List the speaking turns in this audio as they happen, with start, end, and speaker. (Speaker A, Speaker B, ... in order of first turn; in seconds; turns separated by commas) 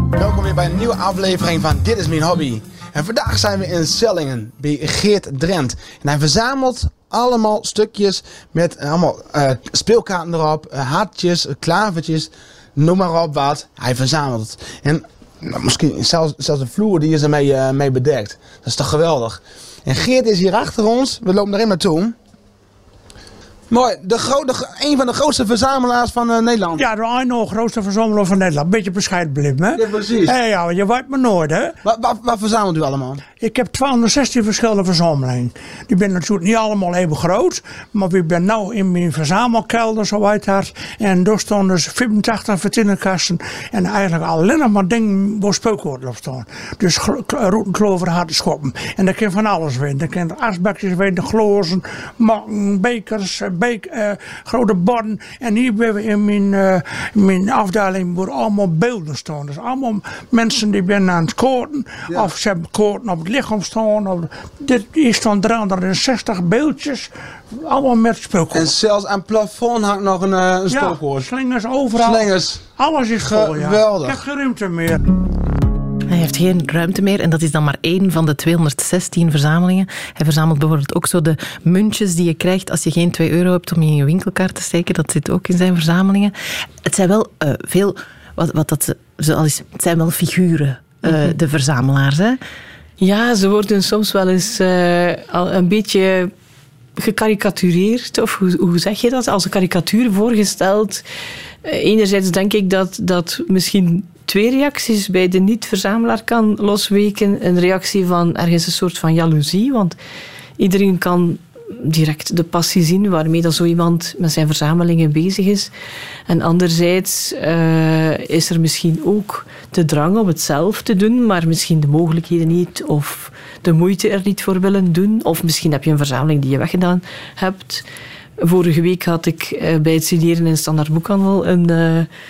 Speaker A: 0.1-22.1, Speaker A: 23.7-26.8, Speaker B: 26.8-31.8, Speaker A: 29.8-30.3, Speaker A: 31.8-33.2, Speaker B: 33.4-68.7, Speaker A: 68.5-71.3, Speaker B: 70.7-75.0, Speaker A: 72.0-72.6, Speaker A: 73.2-74.2, Speaker C: 76.1-92.4, Speaker D: 93.0-96.3, Speaker D: 97.0-101.0, Speaker D: 101.6-110.0, Speaker D: 110.6-115.7, Speaker D: 116.3-127.8, Speaker D: 128.4-132.1